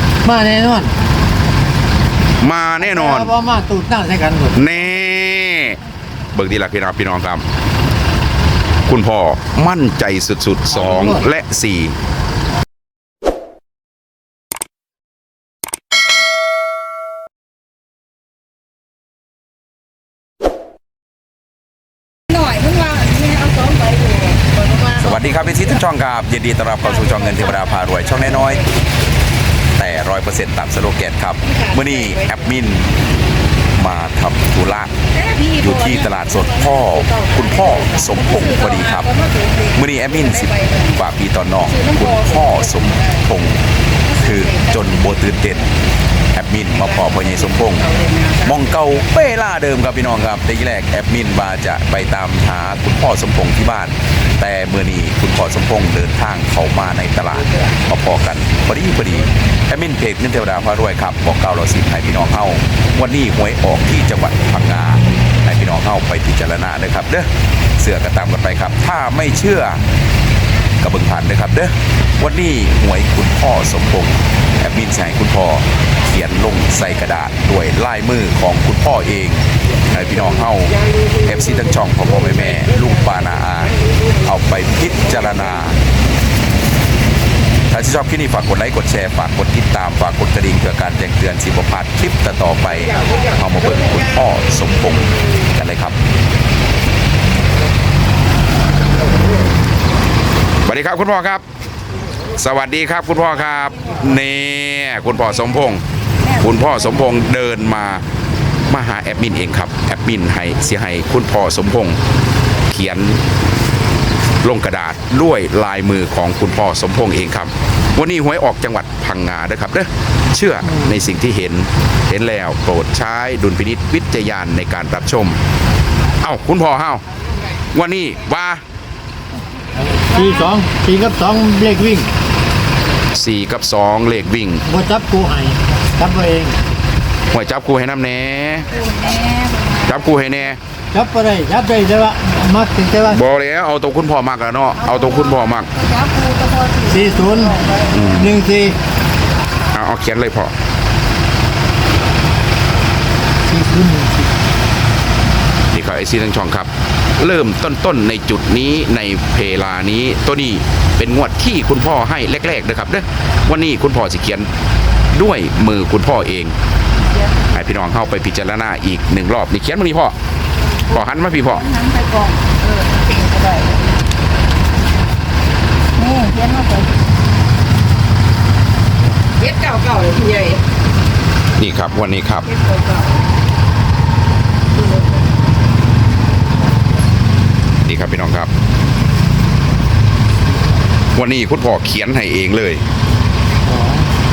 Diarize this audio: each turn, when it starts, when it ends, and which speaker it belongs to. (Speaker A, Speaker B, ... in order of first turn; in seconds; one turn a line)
Speaker A: 0.2-0.9
Speaker B: 2.4-3.3
Speaker A: 2.8-4.6
Speaker B: 4.5-5.8
Speaker B: 6.3-7.4
Speaker B: 8.9-11.9
Speaker A: 10.7-11.2
Speaker C: 22.3-25.1
Speaker B: 25.0-28.6
Speaker C: 27.1-27.6
Speaker B: 29.8-32.9
Speaker C: 31.5-32.2
Speaker B: 33.8-34.9
Speaker C: 35.1-41.0
Speaker B: 35.6-39.1
Speaker B: 39.7-43.6
Speaker C: 41.7-43.0
Speaker C: 44.1-44.7
Speaker B: 44.2-45.7
Speaker B: 46.3-47.9
Speaker C: 47.8-48.5
Speaker B: 48.4-69.8
Speaker B: 70.8-85.8
Speaker B: 87.7-96.0
Speaker B: 100.6-101.4
Speaker B: 102.3-108.0
Speaker B: 108.7-112.0
Speaker B: 112.7-113.2
Speaker B: 114.4-125.4
Speaker A: 120.6-121.0
Speaker B: 126.2-127.0
Speaker B: 127.7-128.6
Speaker A: 129.8-132.1
Speaker B: 133.1-134.6
Speaker A: 134.6-136.5
Speaker B: 137.3-138.7
Speaker C: 138.7-139.9
Speaker B: 139.8-140.6
Speaker A: 140.9-143.2
Speaker B: 143.1-145.7
Speaker C: 144.8-148.0
Speaker A: 146.9-148.8
Speaker B: 147.9-148.3
Speaker B: 149.7-150.5
Speaker A: 153.5-154.3
Speaker B: 155.7-164.5
Speaker B: 165.1-166.5
Speaker B: 167.5-170.1
Speaker B: 170.9-171.7
Speaker C: 171.3-173.9
Speaker C: 176.0-176.9
Speaker C: 179.4-180.6
Speaker B: 181.6-182.5
Speaker C: 182.4-183.3
Speaker C: 184.7-185.3
Speaker B: 187.8-188.5
Speaker B: 191.1-192.8
Speaker A: 193.6-194.1